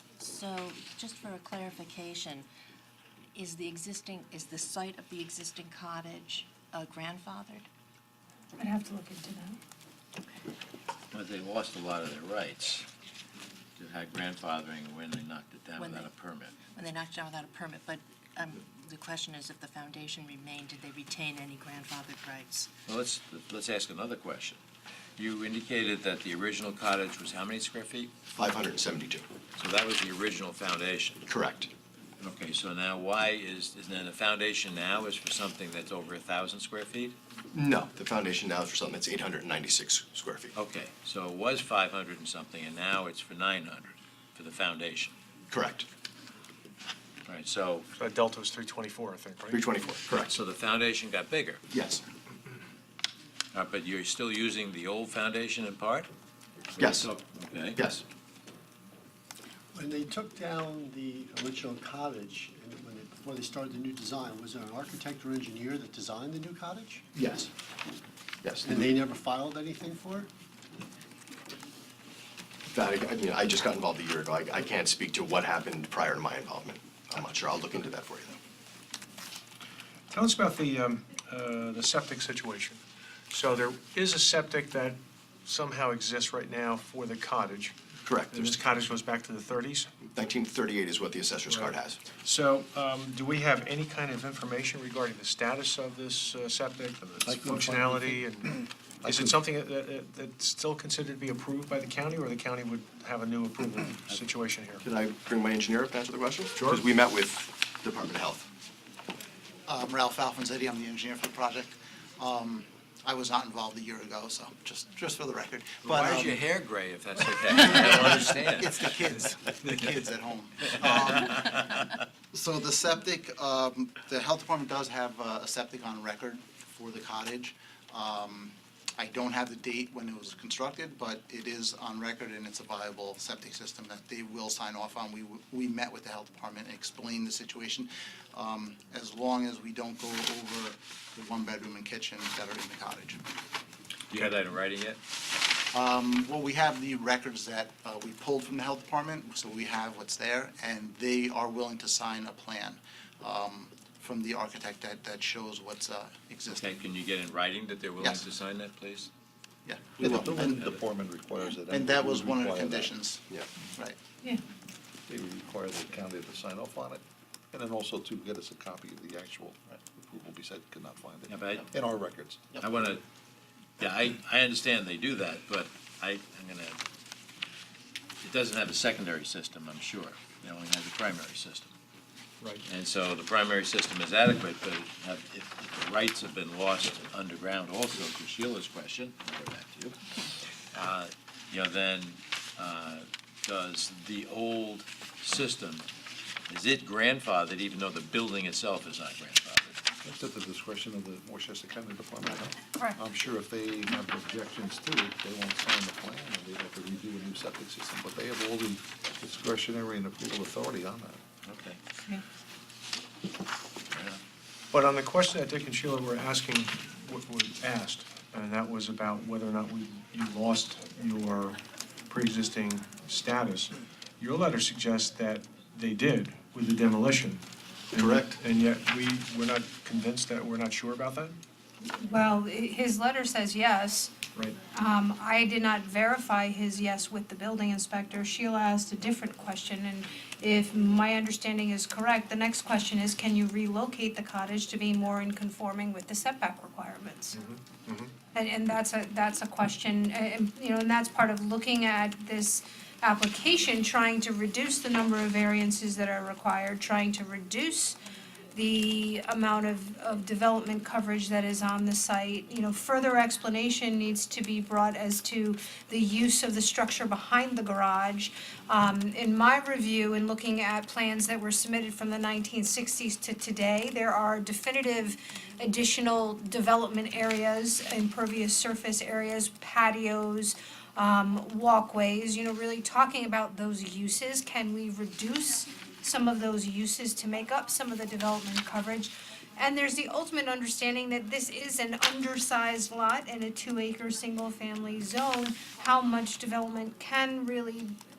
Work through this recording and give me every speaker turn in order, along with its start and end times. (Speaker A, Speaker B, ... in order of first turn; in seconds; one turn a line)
Speaker A: 0.2-2.5
Speaker A: 3.3-7.7
Speaker B: 8.6-9.6
Speaker C: 11.1-12.8
Speaker C: 13.8-16.6
Speaker A: 15.8-16.1
Speaker A: 16.7-22.7
Speaker C: 22.9-24.6
Speaker C: 25.2-28.1
Speaker D: 28.3-29.2
Speaker C: 29.6-31.2
Speaker D: 31.3-31.7
Speaker C: 32.2-37.1
Speaker D: 37.5-40.5
Speaker C: 40.5-45.1
Speaker D: 45.5-45.8
Speaker C: 47.2-47.9
Speaker E: 48.0-49.6
Speaker D: 49.5-50.3
Speaker C: 50.3-51.6
Speaker D: 51.7-52.0
Speaker C: 53.5-56.1
Speaker C: 56.8-57.8
Speaker D: 56.8-57.1
Speaker D: 57.8-58.0
Speaker F: 59.7-67.0
Speaker D: 67.1-67.5
Speaker D: 68.4-68.8
Speaker F: 68.6-70.3
Speaker D: 72.7-78.4
Speaker E: 80.1-82.8
Speaker E: 83.3-87.7
Speaker D: 88.0-88.6
Speaker E: 88.3-89.9
Speaker D: 90.1-92.0
Speaker E: 91.5-104.8
Speaker G: 97.2-98.2
Speaker G: 99.0-99.4
Speaker D: 104.8-108.5
Speaker E: 106.6-106.8
Speaker H: 109.7-116.4
Speaker C: 115.8-119.2
Speaker H: 117.5-121.8
Speaker C: 120.7-121.2
Speaker H: 122.3-143.2
Speaker C: 144.1-145.0
Speaker H: 145.7-156.8
Speaker C: 156.5-159.1
Speaker H: 158.0-158.2
Speaker H: 159.6-160.7
Speaker G: 160.0-162.9
Speaker C: 160.5-160.8
Speaker H: 161.7-163.2
Speaker G: 165.1-172.5
Speaker C: 171.3-171.7
Speaker C: 172.6-173.0
Speaker C: 173.8-176.8
Speaker C: 178.2-181.7
Speaker C: 182.7-190.0
Speaker C: 190.7-195.8
Speaker C: 196.5-199.8
Speaker G: 200.0-211.2
Speaker C: 211.4-211.8
Speaker C: 213.9-214.2
Speaker E: 214.7-221.6
Speaker E: 222.1-227.4
Speaker E: 227.9-231.4
Speaker D: 227.9-228.4
Speaker B: 231.8-247.4
Speaker E: 234.3-234.6
Speaker E: 247.4-248.1
Speaker B: 248.3-258.0
Speaker B: 258.5-297.9